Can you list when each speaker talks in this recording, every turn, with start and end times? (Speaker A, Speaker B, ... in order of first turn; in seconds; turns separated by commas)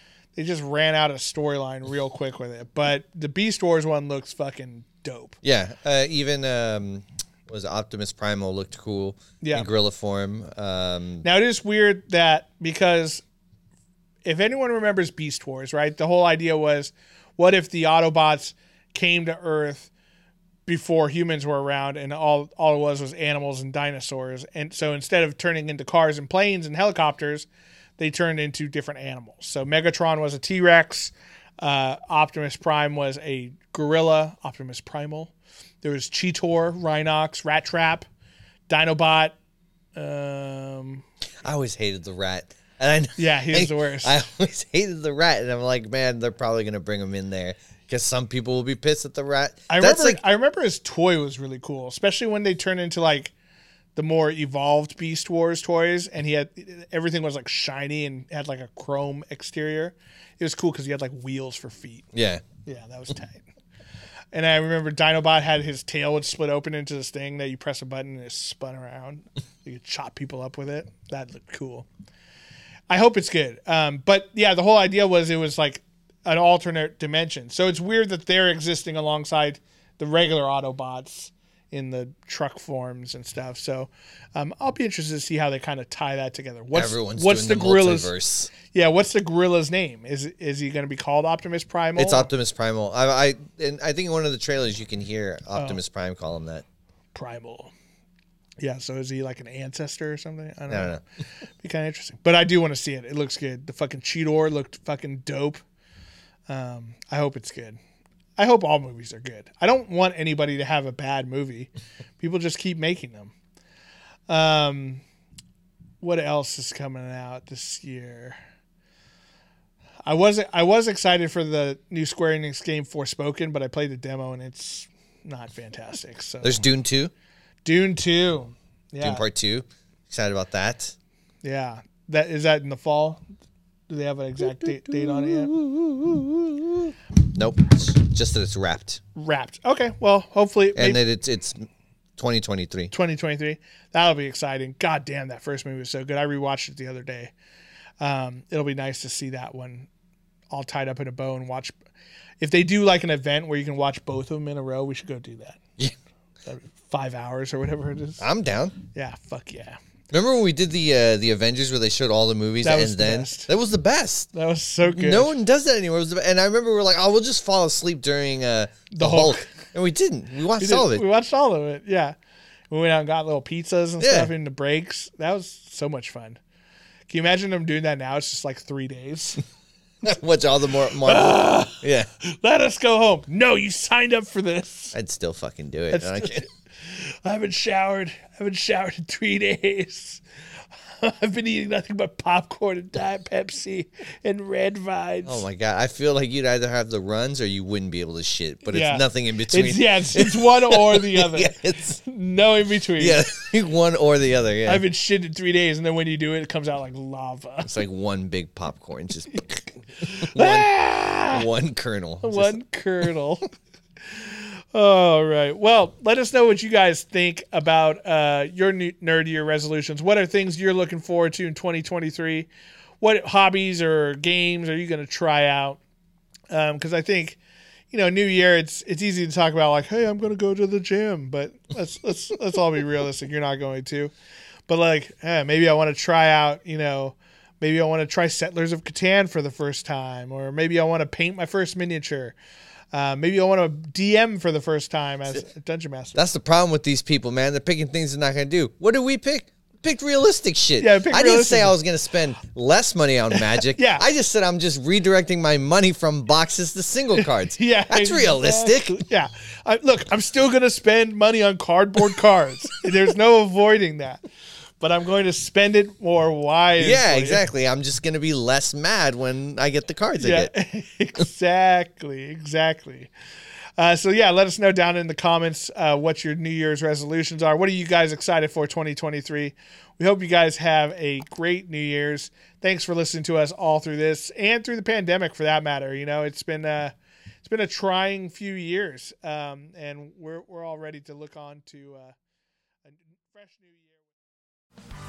Speaker A: 0.3-5.4, Speaker B: 5.4-11.2, Speaker A: 9.4-9.7, Speaker A: 11.2-13.2, Speaker A: 14.2-19.9, Speaker A: 20.7-27.5, Speaker A: 28.0-38.0, Speaker A: 38.7-39.4, Speaker A: 40.0-41.0, Speaker B: 41.4-50.2, Speaker A: 43.2-44.2, Speaker A: 49.7-53.3, Speaker A: 54.0-62.1, Speaker B: 62.1-62.4, Speaker A: 62.6-63.4, Speaker A: 64.3-71.9, Speaker A: 72.9-88.1, Speaker B: 86.7-88.5, Speaker A: 88.7-92.3, Speaker B: 92.0-96.6, Speaker A: 95.5-95.8, Speaker A: 97.1-97.7, Speaker A: 98.6-101.0, Speaker B: 100.7-101.0, Speaker A: 101.6-105.6, Speaker A: 106.5-107.8, Speaker A: 108.4-113.3, Speaker A: 114.3-115.0, Speaker A: 116.0-118.4, Speaker A: 120.0-126.6, Speaker B: 126.4-127.1, Speaker A: 127.6-129.2, Speaker B: 129.0-130.9, Speaker A: 131.4-133.2, Speaker A: 133.9-135.5, Speaker B: 134.4-139.0, Speaker A: 139.2-141.0, Speaker B: 140.7-142.9, Speaker A: 142.9-147.3, Speaker A: 148.0-149.9, Speaker A: 150.5-151.7, Speaker A: 152.4-155.6, Speaker A: 156.4-158.2, Speaker B: 158.2-158.8, Speaker A: 158.9-159.8, Speaker B: 160.1-164.3, Speaker A: 162.6-163.5, Speaker A: 164.3-165.3, Speaker B: 164.8-171.0, Speaker A: 168.9-169.5, Speaker A: 170.6-172.2, Speaker A: 172.7-176.4, Speaker B: 174.0-174.3, Speaker A: 177.1-179.4, Speaker B: 180.0-182.1, Speaker A: 181.0-184.9, Speaker B: 184.9-186.5, Speaker A: 185.9-190.2, Speaker A: 191.0-195.4, Speaker B: 195.2-202.0, Speaker A: 198.7-203.2, Speaker B: 203.0-204.8, Speaker A: 204.7-207.8, Speaker B: 207.6-210.7, Speaker A: 209.3-211.4, Speaker B: 211.2-212.6, Speaker A: 212.2-213.5, Speaker A: 214.1-222.5, Speaker A: 223.0-225.8, Speaker A: 226.5-227.4, Speaker A: 227.9-234.1, Speaker A: 234.7-242.3, Speaker A: 242.9-246.2, Speaker B: 246.1-259.0, Speaker A: 250.8-251.7, Speaker A: 253.7-254.0, Speaker A: 257.2-264.2, Speaker A: 264.8-267.4, Speaker B: 266.8-270.5, Speaker A: 270.2-273.1, Speaker A: 273.8-292.1, Speaker A: 292.8-294.0